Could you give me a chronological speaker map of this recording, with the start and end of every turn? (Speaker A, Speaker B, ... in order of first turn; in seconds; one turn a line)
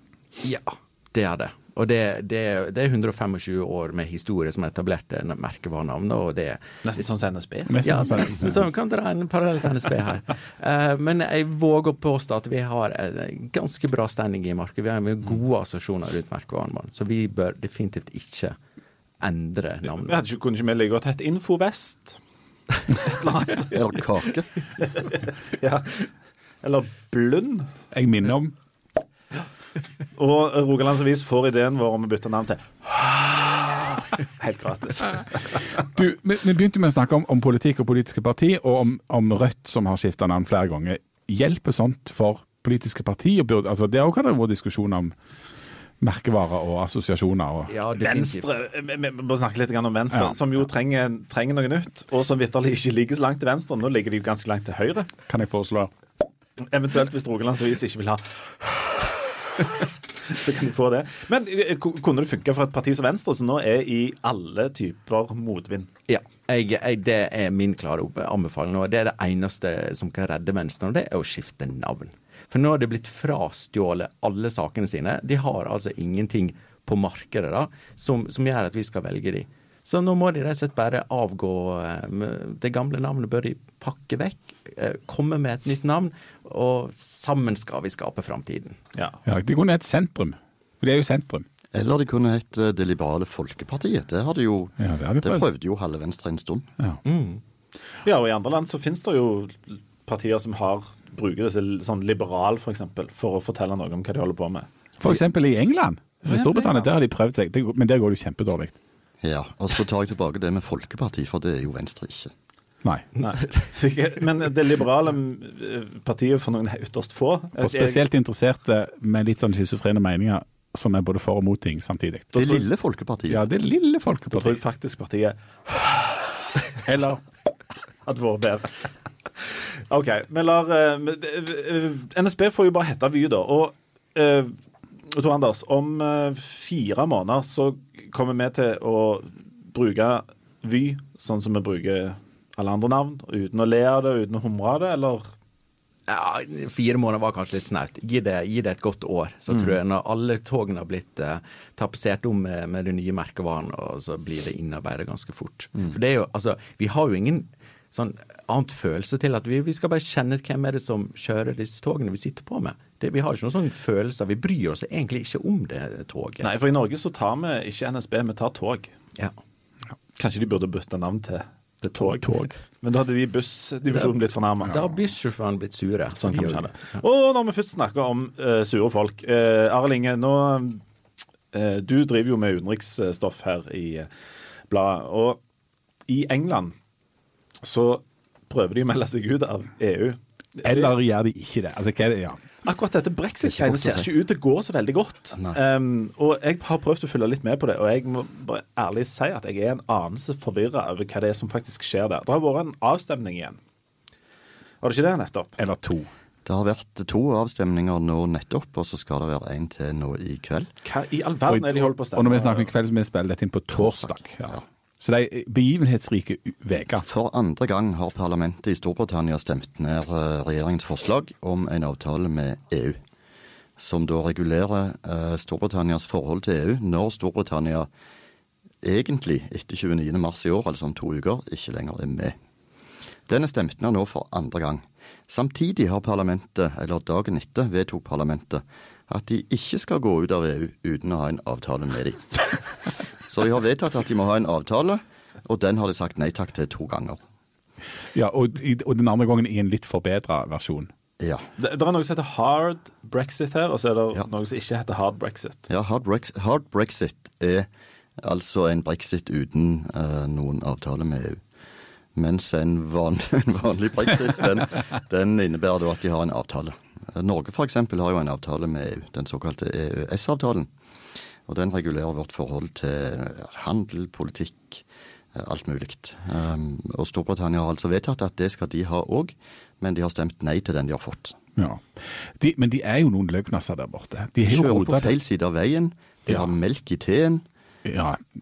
Speaker A: 0.4-7.0
Speaker B: 6.8-8.0
Speaker C: 7.7-8.7
Speaker A: 7.8-18.6
Speaker A: 19.2-20.1
Speaker B: 19.9-22.2
Speaker B: 22.9-23.8
Speaker D: 23.7-24.5
Speaker B: 24.8-26.1
Speaker B: 26.6-27.7
Speaker C: 27.9-28.5
Speaker B: 30.1-35.8
Speaker C: 35.8-45.1
Speaker C: 46.0-47.7
Speaker A: 47.7-48.5
Speaker B: 48.0-55.1
Speaker C: 55.3-55.9
Speaker B: 56.6-65.9
Speaker A: 66.1-88.8
Speaker B: 88.9-89.2
Speaker C: 89.2-91.5
Speaker D: 91.7-96.7
Speaker C: 94.8-95.4
Speaker A: 97.0-97.4
Speaker B: 98.0-104.7
Speaker C: 105.0-108.8
Speaker B: 106.3-106.6
Speaker D: 109.2-112.3
Speaker B: 113.2-118.0
Speaker C: 117.6-122.6
Speaker D: 122.3-123.5
Speaker C: 123.3-124.6
Speaker B: 124.3-126.6
Speaker C: 126.8-127.2
Speaker B: 128.0-134.6
Speaker B: 135.1-145.2
Speaker A: 146.1-166.5
Speaker B: 166.4-168.9
Speaker B: 170.2-174.9
Speaker C: 172.2-172.5
Speaker A: 174.6-177.0
Speaker B: 176.2-180.8
Speaker B: 181.5-184.1
Speaker B: 184.7-185.4
Speaker B: 186.1-186.7
Speaker B: 187.6-190.9
Speaker C: 190.6-192.4
Speaker B: 192.6-203.6
Speaker D: 193.5-194.1
Speaker D: 195.3-195.6
Speaker B: 204.8-205.6
Speaker C: 205.6-206.1
Speaker D: 206.4-210.7
Speaker B: 210.8-212.7
Speaker C: 211.5-217.0
Speaker D: 213.7-214.6
Speaker D: 216.9-223.0
Speaker D: 223.8-227.9
Speaker D: 228.8-232.3
Speaker D: 233.3-247.2
Speaker C: 248.1-250.9
Speaker D: 251.2-251.5
Speaker B: 251.6-255.6
Speaker D: 255.7-257.7
Speaker D: 258.2-261.4
Speaker D: 262.1-270.7
Speaker D: 271.5-281.4
Speaker C: 281.6-285.1
Speaker D: 284.4-287.4
Speaker C: 287.8-288.2